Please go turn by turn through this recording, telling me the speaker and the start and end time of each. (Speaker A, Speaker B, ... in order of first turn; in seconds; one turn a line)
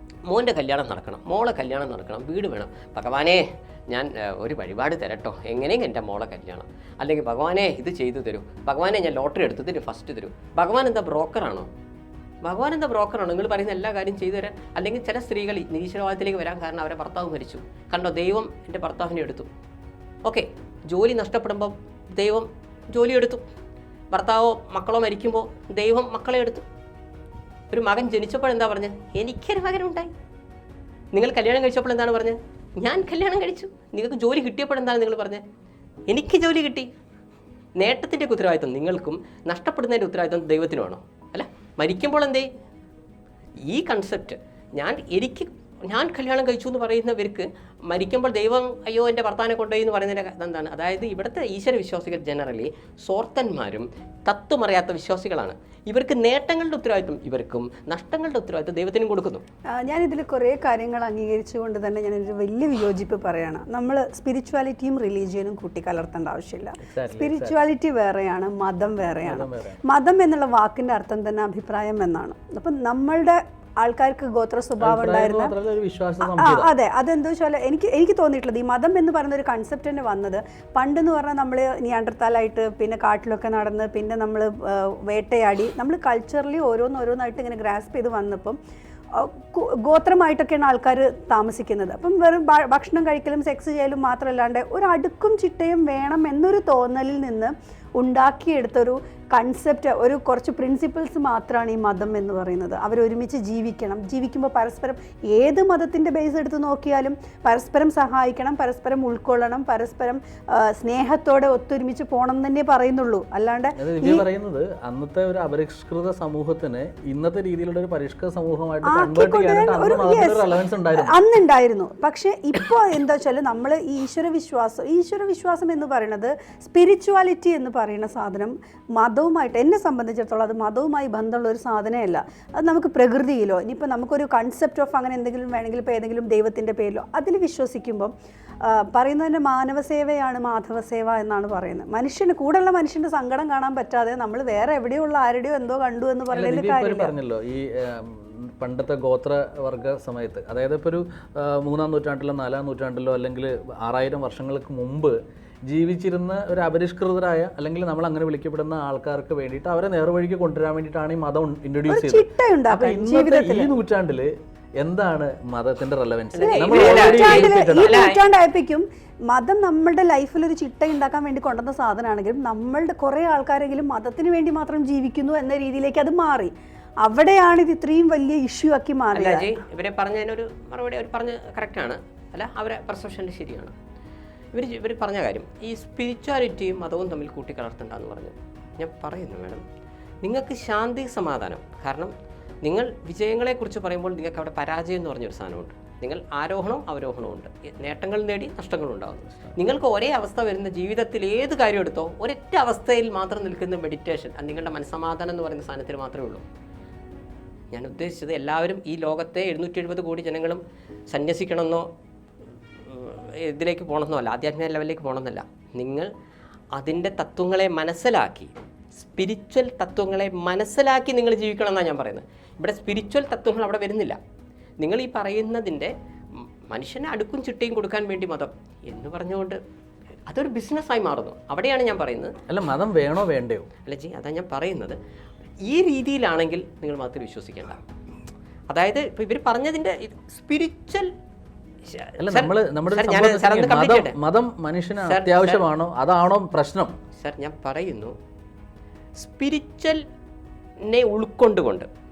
Speaker A: 0.3-11.7
Speaker A: 12.4-19.5
Speaker A: 20.2-23.4
Speaker A: 24.1-26.7
Speaker A: 27.7-30.1
Speaker A: 31.1-35.4
Speaker A: 36.1-36.9
Speaker A: 37.8-42.5
Speaker A: 43.6-59.4
Speaker B: 59.8-75.5
Speaker C: 66.8-67.6
Speaker C: 69.2-69.8
Speaker C: 74.8-76.7
Speaker B: 76.2-88.6
Speaker B: 89.2-114.3
Speaker C: 113.8-121.2
Speaker B: 118.8-138.1
Speaker B: 138.7-147.1
Speaker C: 146.3-155.2
Speaker C: 155.7-168.1
Speaker B: 161.9-163.7
Speaker A: 166.3-168.2
Speaker B: 166.4-176.5
Speaker B: 177.0-179.6
Speaker A: 179.1-183.7
Speaker A: 184.5-189.6
Speaker A: 190.2-206.4
Speaker C: 199.3-199.6
Speaker A: 207.7-211.9
Speaker A: 212.8-216.1
Speaker A: 216.7-224.2
Speaker A: 224.8-229.6
Speaker A: 230.3-232.4
Speaker C: 232.5-233.7
Speaker A: 233.9-235.0
Speaker A: 235.7-237.8
Speaker A: 238.7-241.1
Speaker A: 241.9-244.2
Speaker C: 242.2-246.9
Speaker A: 245.0-245.6
Speaker A: 247.2-248.2
Speaker A: 249.2-250.0
Speaker A: 250.9-251.9